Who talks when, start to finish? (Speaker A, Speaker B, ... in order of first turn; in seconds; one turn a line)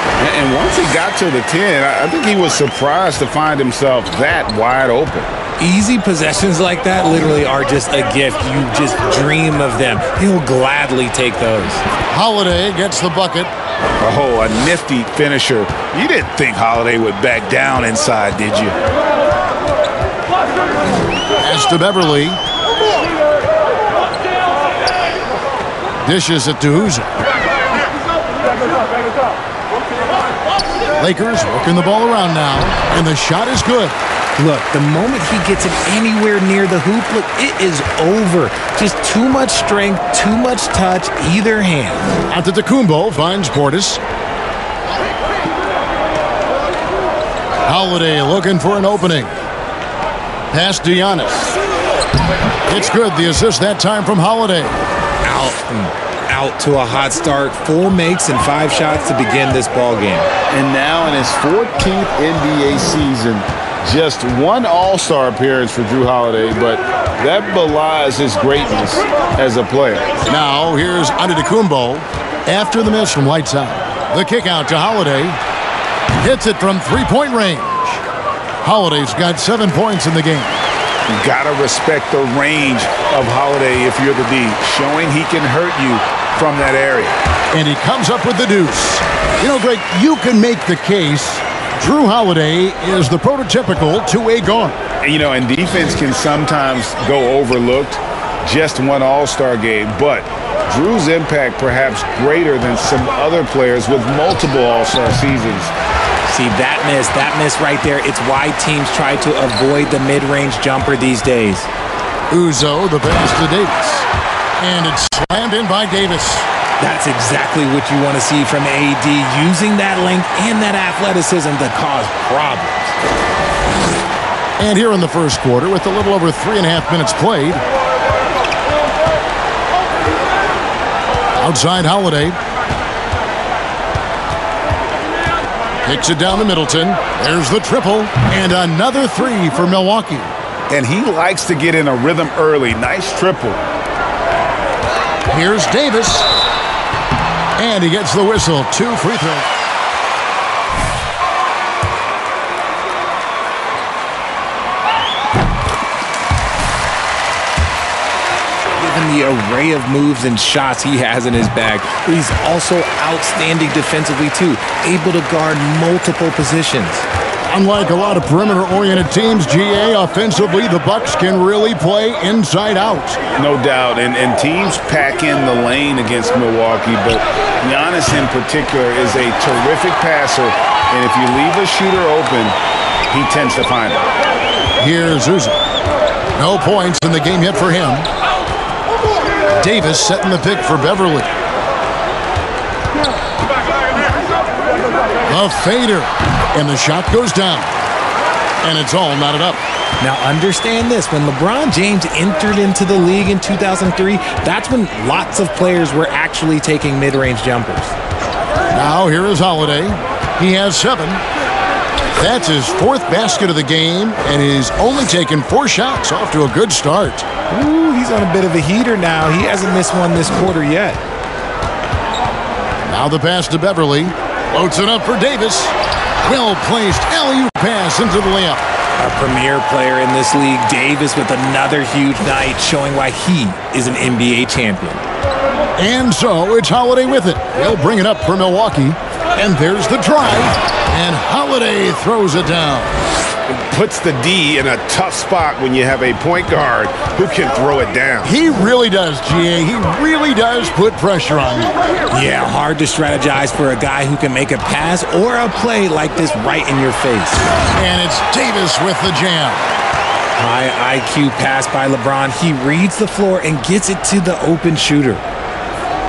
Speaker A: 0.2-5.3
Speaker B: 5.6-11.8
Speaker C: 12.1-13.5
Speaker A: 14.0-18.8
Speaker C: 21.4-22.4
Speaker C: 26.0-27.1
Speaker C: 31.0-33.9
Speaker B: 34.4-42.1
Speaker C: 42.3-44.0
Speaker C: 47.6-49.3
Speaker C: 50.5-51.6
Speaker C: 52.7-54.8
Speaker B: 55.2-60.3
Speaker A: 60.5-70.1
Speaker C: 70.3-75.4
Speaker C: 76.1-78.0
Speaker C: 78.6-80.6
Speaker A: 81.1-87.2
Speaker C: 87.5-94.8
Speaker A: 95.0-105.7
Speaker B: 106.3-111.7
Speaker C: 112.3-114.1
Speaker C: 114.6-116.5
Speaker B: 116.8-123.0
Speaker C: 124.6-127.6
Speaker C: 131.4-132.4
Speaker C: 135.8-140.3
Speaker A: 140.7-143.6
Speaker C: 145.3-146.3
Speaker C: 147.6-149.5
Speaker B: 158.7-167.1
Speaker C: 167.5-173.2
Speaker A: 173.3-182.6
Speaker A: 183.1-184.0
Speaker C: 184.8-185.6
Speaker C: 186.3-188.1
Speaker C: 189.6-191.3
Speaker C: 195.2-197.7
Speaker C: 198.6-199.6
Speaker B: 200.0-207.9
Speaker C: 208.7-211.2
Speaker C: 212.2-217.2
Speaker B: 217.5-221.0
Speaker C: 222.8-228.6
Speaker B: 229.0-235.0
Speaker C: 235.8-242.9
Speaker A: 243.5-248.3
Speaker C: 248.2-251.7
Speaker B: 252.1-257.5
Speaker C: 257.7-259.7
Speaker B: 260.4-265.2